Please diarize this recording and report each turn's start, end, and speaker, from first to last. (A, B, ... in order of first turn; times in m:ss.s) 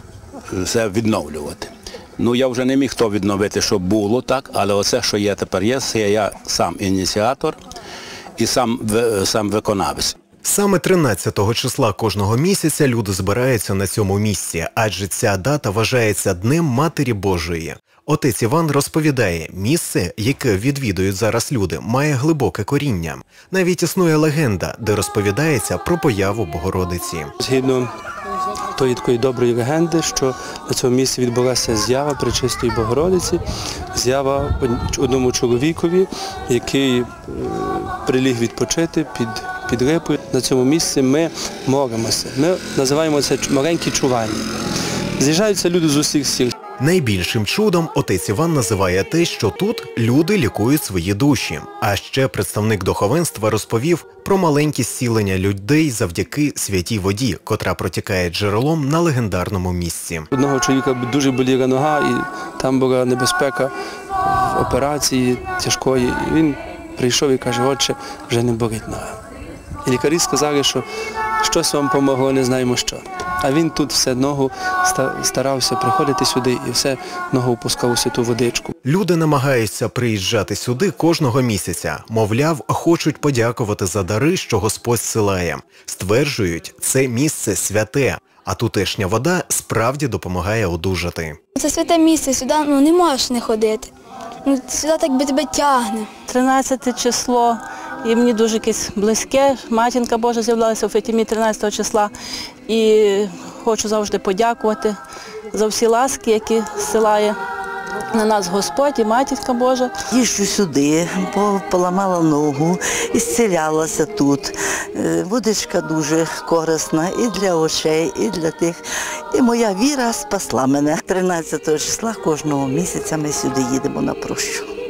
0:00.5-0:07.6 A
0:08.4-0:10.2 A
0:10.4-0:27.3 B
0:27.4-0:27.9 C
0:28.8-0:33.4 C
0:33.9-0:44.5 C
0:45.2-0:46.6 C
0:46.8-1:00.3 B
1:00.3-1:09.2 C
1:09.8-1:10.9 C
1:11.4-1:18.7 C
1:18.8-1:31.4 B
1:31.6-1:33.9 D
1:34.4-1:36.1 D
1:36.3-1:42.1 E
1:42.7-1:45.0 E
1:45.5-1:47.4 E
1:48.1-1:49.9 E
1:50.1-1:58.8 F
1:59.3-2:04.7 F